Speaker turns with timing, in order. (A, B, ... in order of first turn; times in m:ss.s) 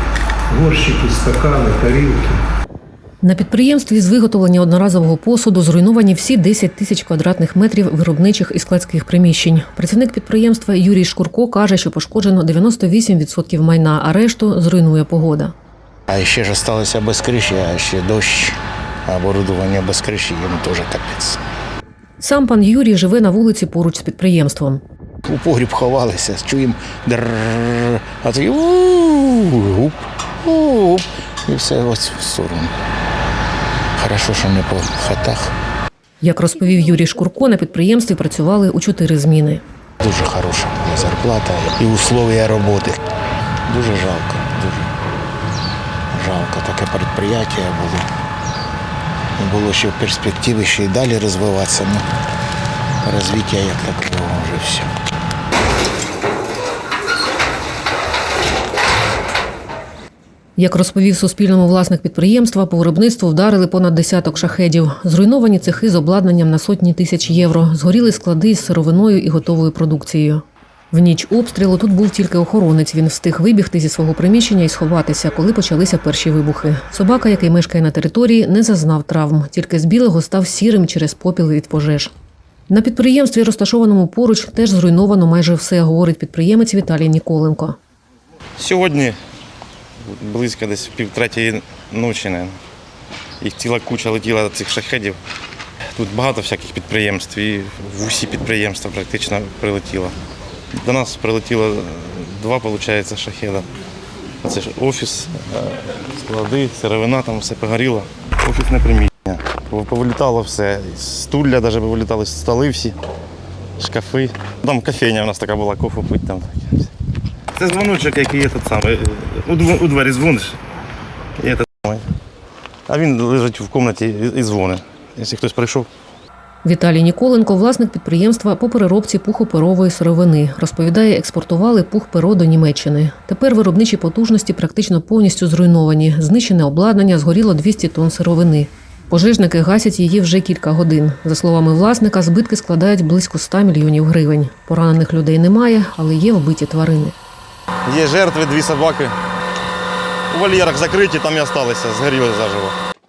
0:00.5-0:02.4 A
0:03.2-0:15.5 B
0:16.1-0:21.4 C
0:22.2-0:24.8 B
0:25.2-0:32.7 C
0:34.0-0:35.5 C
0:36.2-0:39.6 B
0:40.0-0:43.0 C
0:43.7-0:44.9 C
0:46.1-0:48.1 C
0:49.4-0:52.0 C
0:53.0-0:54.9 C
1:00.6-1:22.1 B
1:22.7-1:27.8 B
1:28.6-1:29.2 D
1:30.0-1:32.6 D
1:33.4-1:35.2 D
1:35.9-1:40.1 D
1:40.8-1:43.7 D
1:44.4-1:53.0 D
1:53.8-1:56.9 D
1:57.5-2:00.6 D
2:01.4-2:02.0 D
2:02.9-2:05.9 D
2:06.6-2:27.2 B
2:27.8-2:29.2 D
2:30.3-2:32.8 D